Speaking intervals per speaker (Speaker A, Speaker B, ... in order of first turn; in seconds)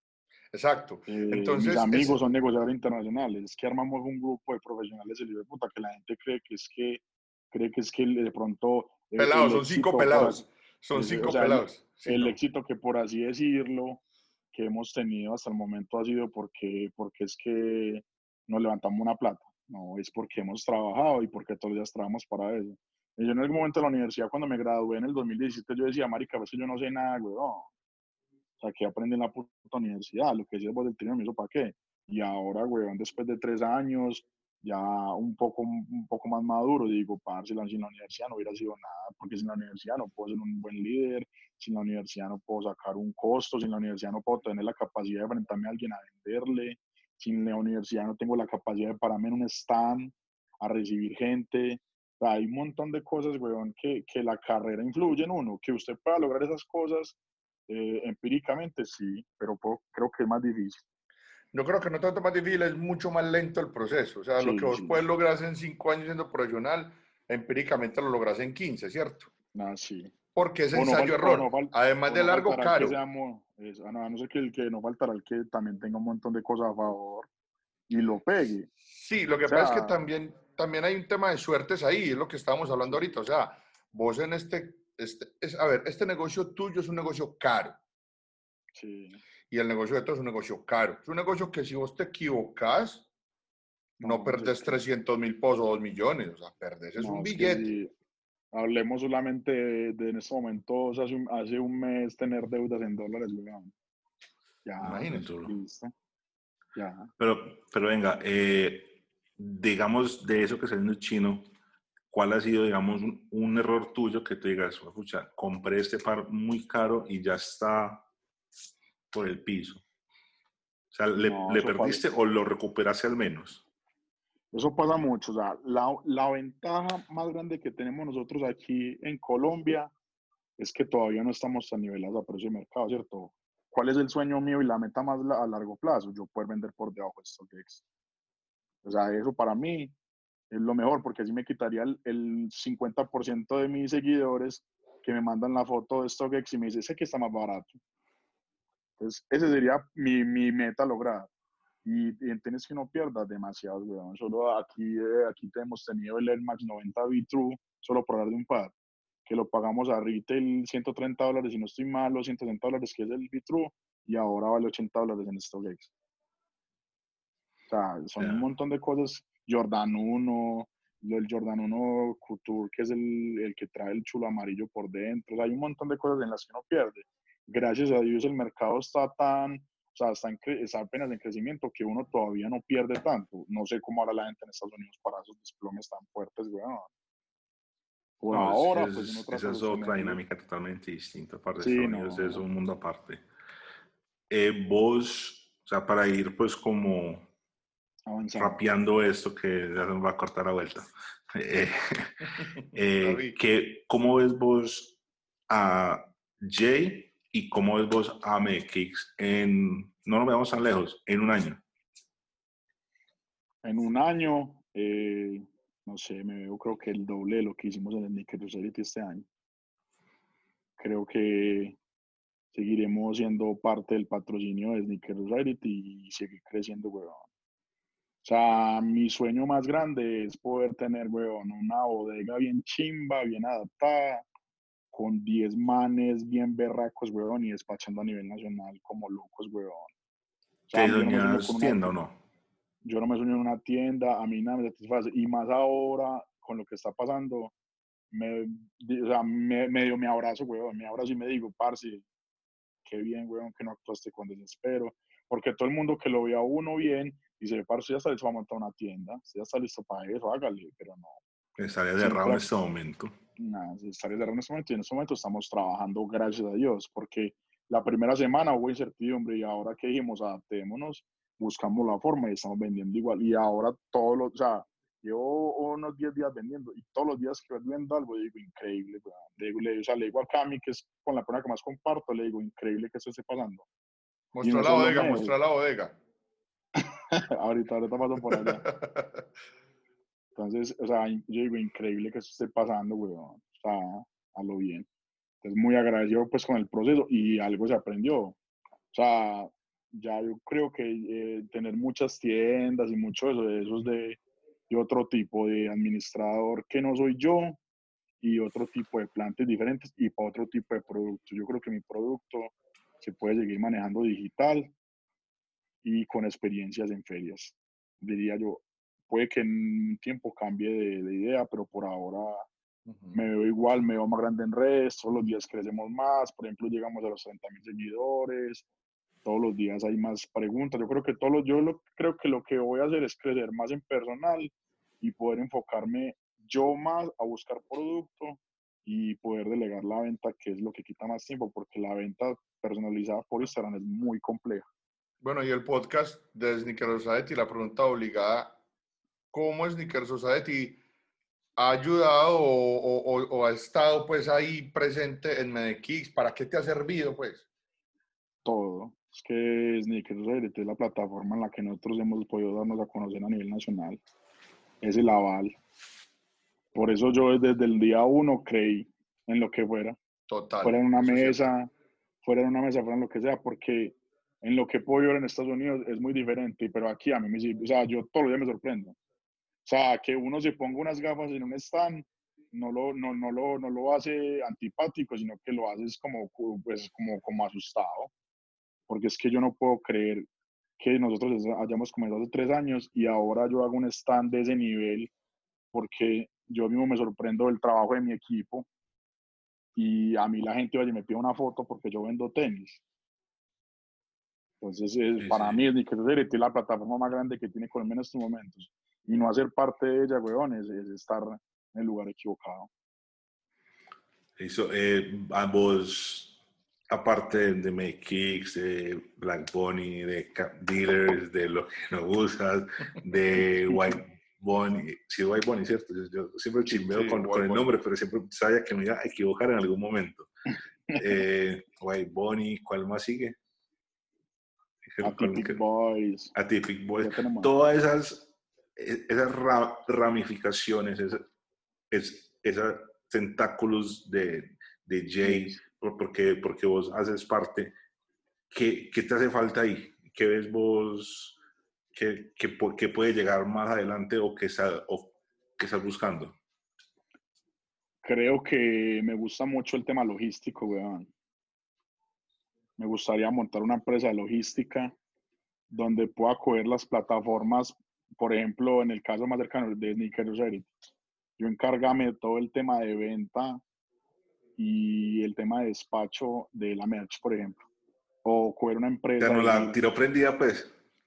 Speaker A: 0.5-2.2, 9.2-12.3, 61.5-69.3, 70.3-73.0, 78.9-87.8, 89.5-93.0, 94.0-97.7, 104.8-105.3, 203.0-203.4, 284.3-286.0, 288.5-289.2, 322.9-323.2, 345.2-348.6, 349.3-350.8, 351.6-357.4, 370.3-371.4, 426.7-427.7
Speaker B: 1.1-27.7, 28.6-57.2, 57.7-60.8, 64.4-65.0, 69.5-70.1, 70.7-77.3, 77.9-78.7, 79.5-80.0, 88.8-89.2, 94.0-94.8, 97.0-97.9, 98.5-103.7, 104.6-105.9, 106.7-107.1, 121.2-122.0, 124.5-129.9, 130.6-137.8, 138.8-139.9, 140.5-147.8, 149.0-151.3, 151.8-158.7, 159.2-165.9, 167.7-186.9, 188.2-190.2, 191.6-192.4, 198.1-198.6, 213.6-219.3, 220.8-221.8, 222.5-227.2, 228.2-234.2, 234.9-239.9, 240.7-241.9, 242.8-247.5, 248.1-252.0, 252.8-261.2, 262.0-262.5, 263.4-283.7, 284.4-285.3, 286.8-288.6, 290.3-294.9, 295.4-298.4, 298.9-307.6, 308.2-314.7, 315.8-322.5, 323.1-328.6, 329.2-344.7, 358.4-364.0, 364.8-365.6, 366.7-370.0, 370.6-371.7, 372.2-379.0, 379.6-388.1, 388.9-390.3, 390.8-395.1, 395.7-398.7, 399.7-402.8, 404.6-412.7, 435.0-436.3, 437.0-437.5, 445.2-445.6, 458.0-461.1, 462.8-464.9, 465.7-470.7, 471.4-473.6, 474.6-477.6, 478.2-479.8
Speaker C: 104.8-105.5, 107.2-111.5, 112.1-118.1, 119.1-119.8, 120.9-123.6, 168.2-168.4, 188.3-193.2, 194.3-197.3, 198.3-205.0, 205.5-211.6, 240.7-242.2, 261.6-263.1, 405.2-405.6, 414.4-416.4, 416.9-430.3, 430.9-433.4, 434.9-435.6, 436.3-441.3, 441.9-447.7, 448.5-451.4, 451.9-456.4, 479.2-480.7